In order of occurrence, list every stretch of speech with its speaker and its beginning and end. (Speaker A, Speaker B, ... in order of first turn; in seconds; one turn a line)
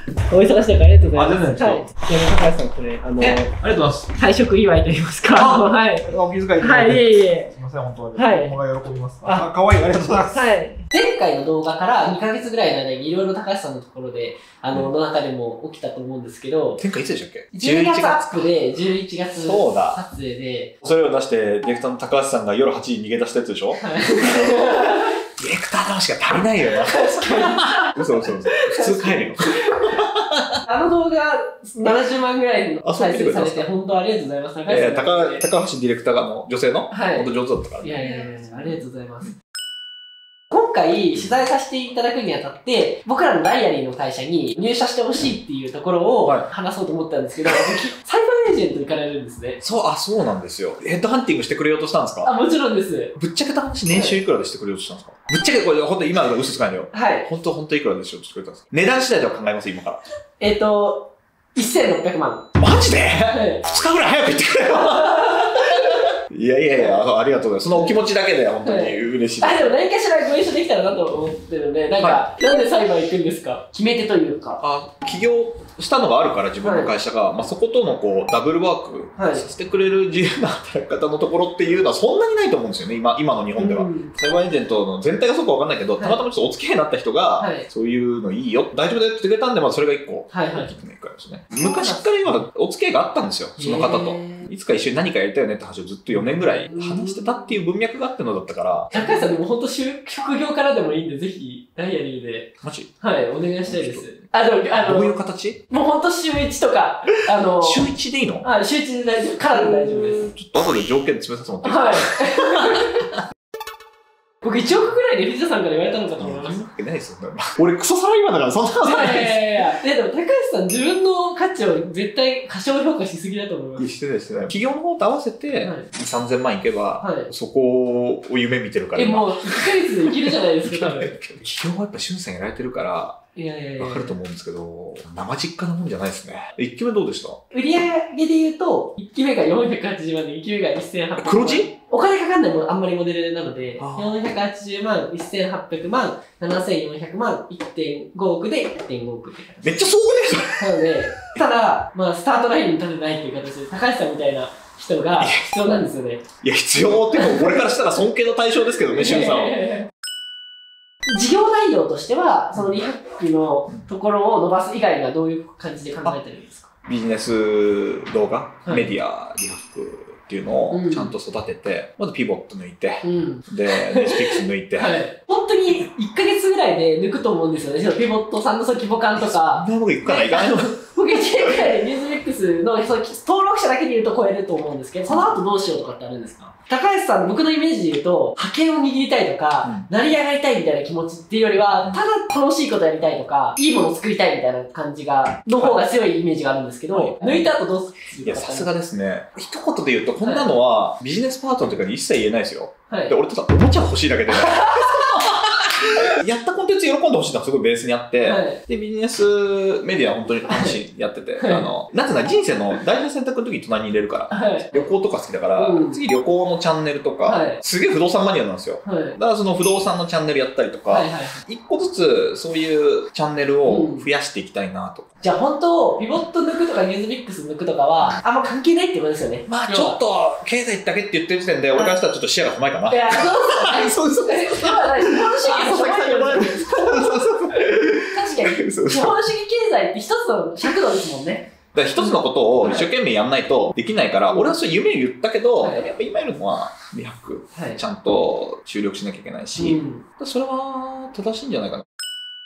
Speaker A: 0.3-3.5
Speaker B: 1.1-1.9
Speaker B: 3.2-4.1
Speaker A: 4.1-6.1
Speaker B: 5.3-10.5
Speaker A: 6.6-7.5
Speaker A: 8.1-8.6
Speaker A: 9.2-9.5
Speaker A: 10.3-16.8
Speaker B: 16.8-18.5
Speaker A: 17.5-20.7
Speaker B: 19.4-20.0
Speaker B: 20.8-30.6
Speaker A: 23.8-25.1
Speaker A: 26.8-30.0
Speaker A: 30.6-35.4
Speaker B: 32.8-33.7
Speaker B: 34.6-38.8
Speaker A: 36.9-39.4
Speaker A: 40.5-49.6
Speaker B: 49.6-52.3
Speaker A: 52.2-53.1
Speaker B: 53.2-60.0
Speaker A: 53.9-54.2
Speaker A: 56.9-57.3
Speaker A: 60.4-62.5
Speaker B: 62.6-69.7
Speaker A: 63.3-63.6
Speaker A: 64.9-66.1
Speaker A: 66.7-67.0
Speaker A: 68.6-74.6
Speaker B: 72.0-72.2
Speaker B: 74.6-99.3
Speaker A: 76.6-76.9
Speaker A: 79.2-79.4
Speaker A: 83.5-84.1
Speaker A: 87.4-87.7
Speaker A: 90.3-90.7
Speaker A: 91.5-92.4
Speaker A: 93.6-94.5
Speaker A: 96.2-97.6
Speaker A: 98.9-105.1
Speaker B: 102.6-102.9
Speaker B: 103.7-104.2
Speaker B: 104.8-105.6
Speaker A: 105.7-107.9
Speaker B: 107.6-108.5
Speaker A: 108.4-110.3
Speaker B: 109.5-112.9
Speaker A: 111.6-113.1
Speaker A: 114.4-116.6
Speaker B: 116.2-119.6
Speaker A: 118.8-123.9
Speaker B: 123.8-133.2
Speaker A: 125.6-125.9
Speaker A: 127.0-127.3
Speaker A: 128.9-131.2
Speaker A: 133.3-134.2
Speaker B: 133.8-137.4
Speaker A: 137.5-149.7
Speaker B: 141.2-141.7
Speaker B: 143.8-144.2
Speaker B: 149.6-150.8
Speaker A: 150.6-156.2
Speaker B: 155.2-155.6
Speaker B: 156.4-159.7
Speaker A: 157.1-157.6
Speaker A: 158.9-159.9
Speaker A: 161.1-166.7
Speaker B: 162.5-162.8
Speaker B: 166.8-175.0
Speaker A: 170.7-171.1
Speaker A: 173.0-198.7
Speaker B: 179.2-181.7
Speaker B: 185.1-185.4
Speaker B: 189.6-189.9
Speaker B: 196.9-197.5
Speaker B: 198.2-225.1
Speaker A: 200.2-200.5
Speaker A: 202.9-203.1
Speaker A: 204.4-205.2
Speaker A: 208.2-208.6
Speaker A: 210.5-210.8
Speaker A: 211.4-211.7
Speaker A: 214.3-214.9
Speaker A: 215.6-216.0
Speaker A: 217.2-217.6
Speaker A: 218.8-219.2
Speaker A: 220.9-221.4
Speaker A: 223.7-224.1
Speaker A: 225.2-230.0
Speaker B: 229.5-239.2
Speaker A: 232.9-242.9
Speaker B: 241.7-251.8
Speaker A: 244.3-244.6
Speaker A: 247.5-247.8
Speaker A: 249.6-250.0